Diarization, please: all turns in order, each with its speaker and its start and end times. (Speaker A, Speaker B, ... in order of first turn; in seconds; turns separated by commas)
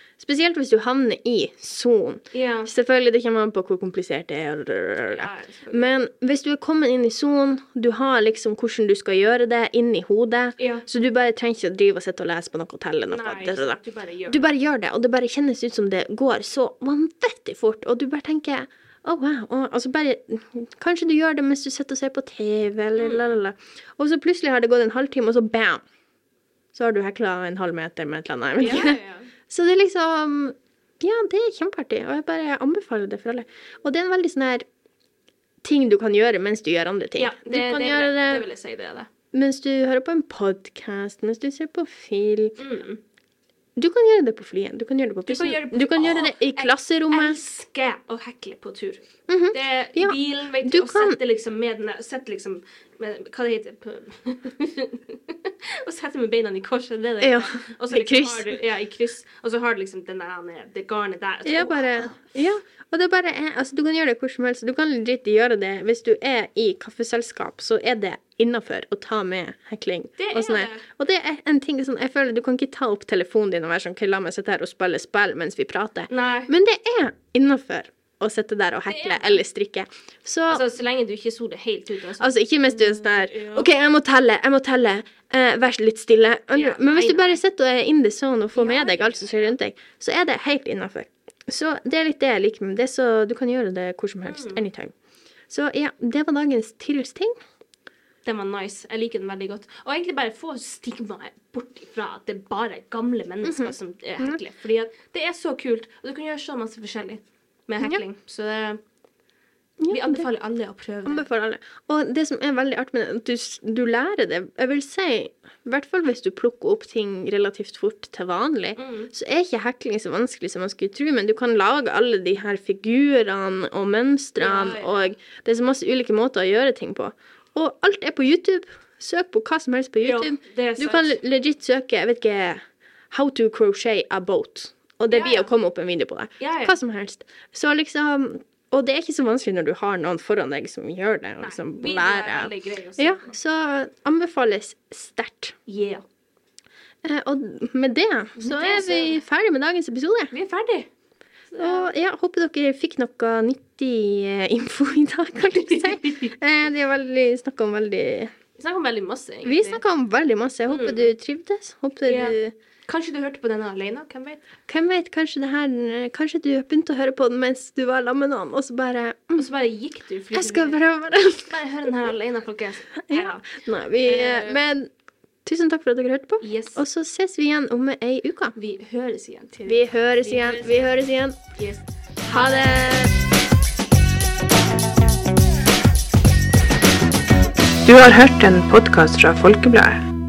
Speaker A: 0.2-25.8, Speaker B: 2.3-2.7, Speaker B: 5.1-5.9, Speaker B: 10.6-10.8, Speaker B: 13.1-14.4, Speaker B: 23.0-23.3, Speaker A: 26.7-34.6, Speaker B: 28.6-29.3, Speaker A: 35.6-38.4, Speaker B: 37.2-39.1, Speaker A: 39.3-42.6, Speaker B: 42.6-43.0, Speaker A: 43.8-47.4, Speaker B: 45.3-62.2, Speaker A: 49.3-51.2, Speaker A: 57.2-58.6, Speaker A: 61.4-80.6, Speaker B: 70.2-70.8, Speaker B: 76.1-76.5, Speaker B: 78.9-79.4, Speaker B: 80.5-83.7, Speaker A: 82.2-94.9, Speaker B: 86.5-87.4, Speaker B: 88.5-89.5, Speaker B: 94.2-94.7, Speaker A: 95.5-97.3, Speaker B: 98.2-108.8, Speaker A: 103.4-104.4, Speaker A: 109.8-110.3, Speaker B: 109.9-111.2, Speaker A: 111.0-145.6, Speaker B: 118.8-119.1, Speaker B: 124.4-125.1, Speaker B: 130.0-131.2, Speaker B: 135.1-135.5, Speaker B: 136.4-136.7, Speaker B: 141.4-143.2, Speaker B: 145.7-146.0, Speaker A: 147.0-150.3, Speaker B: 148.4-149.1, Speaker B: 150.3-150.9, Speaker B: 151.5-151.9, Speaker A: 151.6-158.3, Speaker B: 156.0-156.3, Speaker B: 158.6-159.8, Speaker A: 159.4-162.5, Speaker B: 160.7-161.1, Speaker B: 162.0-164.4, Speaker A: 164.7-169.4, Speaker B: 169.3-170.8, Speaker A: 170.3-171.5, Speaker B: 171.4-174.6, Speaker A: 173.1-174.9, Speaker A: 175.4-178.5, Speaker B: 176.4-176.8, Speaker B: 178.6-180.9, Speaker A: 179.7-181.4, Speaker B: 181.5-182.9, Speaker A: 182.3-183.1, Speaker C: 187.8-190.1